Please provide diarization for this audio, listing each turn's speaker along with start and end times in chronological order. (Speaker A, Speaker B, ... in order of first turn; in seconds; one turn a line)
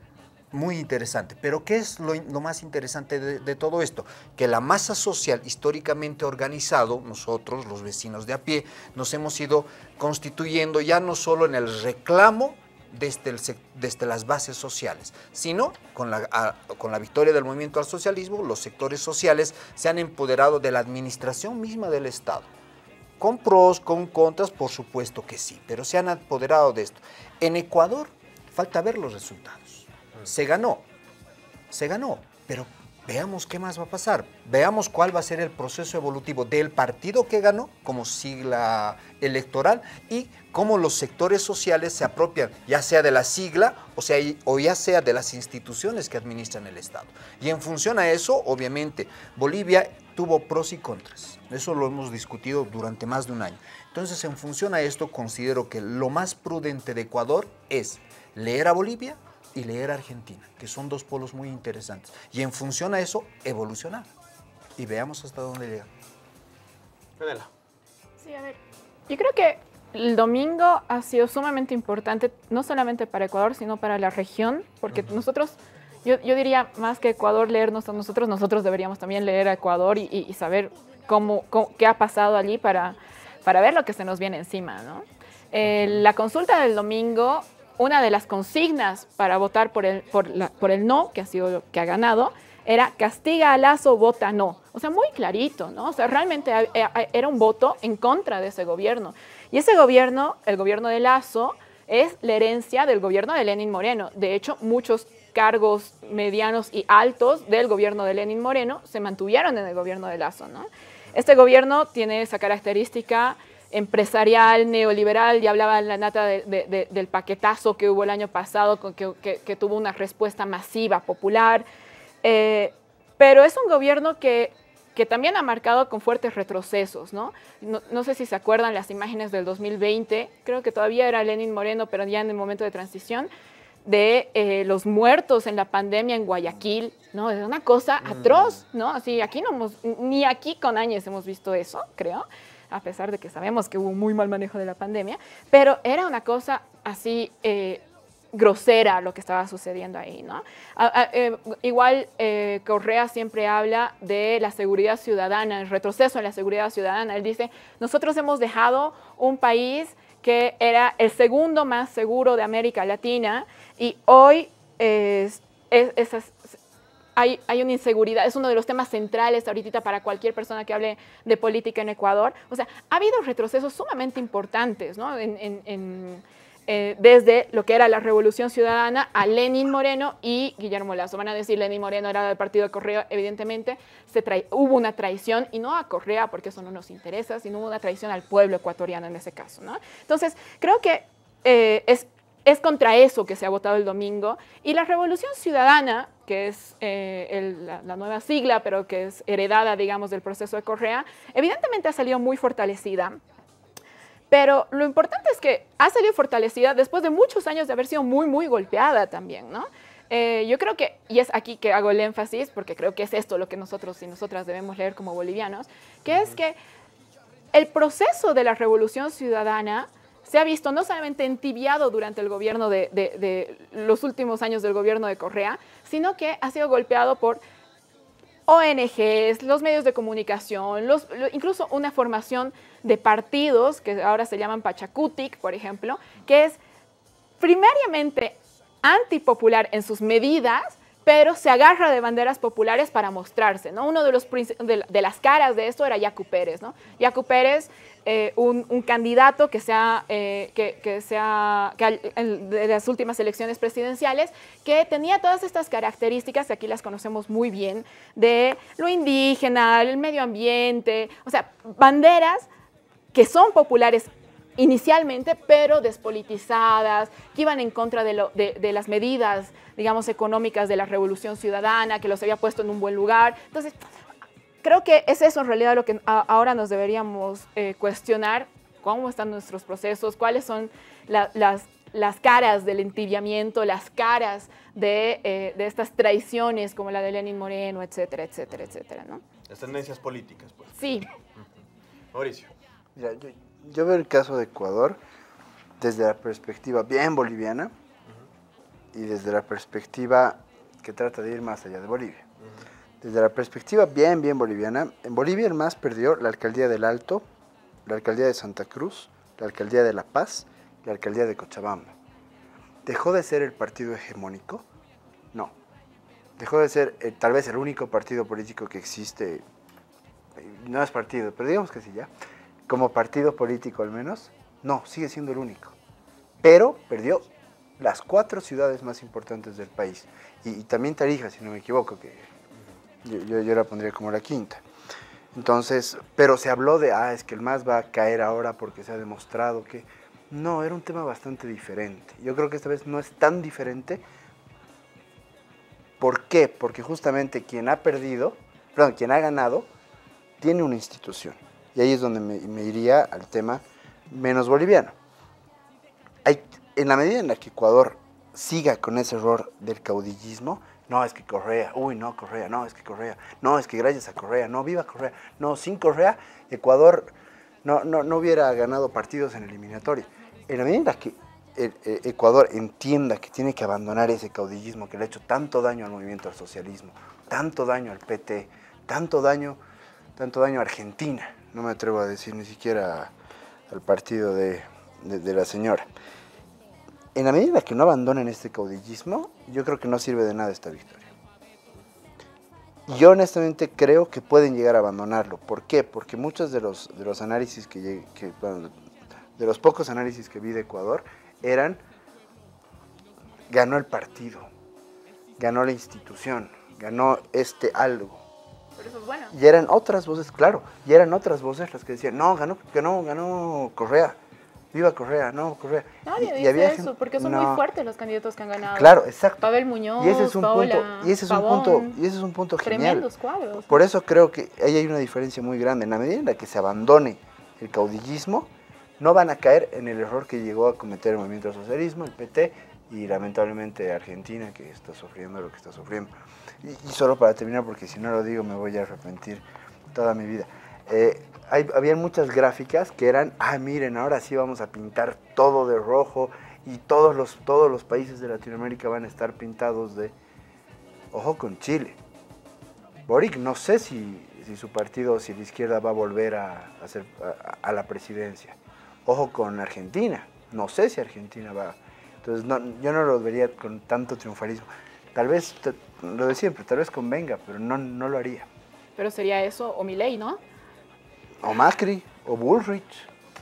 Speaker A: 0.5-22.5
Speaker A: 23.2-30.9
Speaker A: 31.7-64.1
Speaker A: 64.8-65.9
Speaker B: 67.2-67.5
Speaker C: 68.2-68.6
Speaker C: 69.1-121.7
Speaker C: 122.2-133.3
Speaker C: 133.8-166.6
Speaker B: 138.0-138.6
Speaker C: 167.2-203.2
Speaker C: 204.3-216.6
Speaker C: 217.5-227.4
Speaker C: 228.5-236.6
Speaker C: 237.4-262.5
Speaker C: 263.1-273.8
Speaker C: 274.6-289.2
Speaker B: 289.5-290.8
Speaker C: 290.8-291.1
Speaker B: 292.1-292.5
Speaker D: 293.0-295.0
Speaker D: 295.8-297.7
Speaker D: 298.9-302.3
Speaker D: 303.0-307.3
Speaker D: 307.9-311.9
Speaker D: 312.9-314.7
Speaker D: 316.4-319.4
Speaker D: 320.4-322.1
Speaker D: 322.7-325.8
Speaker D: 326.4-332.3
Speaker D: 333.0-334.6
Speaker D: 335.3-344.0
Speaker D: 346.0-349.7
Speaker D: 350.4-355.0
Speaker D: 356.2-379.6
Speaker D: 380.2-383.1
Speaker D: 383.7-385.9
Speaker D: 387.1-391.1
Speaker D: 392.9-398.7
Speaker D: 399.4-401.8
Speaker D: 403.5-404.5
Speaker D: 405.4-408.2
Speaker C: 408.8-409.4
Speaker D: 409.3-414.2
Speaker D: 414.7-417.6
Speaker C: 416.1-422.0
Speaker D: 418.7-423.1
Speaker C: 422.6-423.8
Speaker D: 423.7-450.1
Speaker D: 451.1-452.0
Speaker D: 453.1-468.5
Speaker C: 469.0-470.4
Speaker D: 471.4-473.1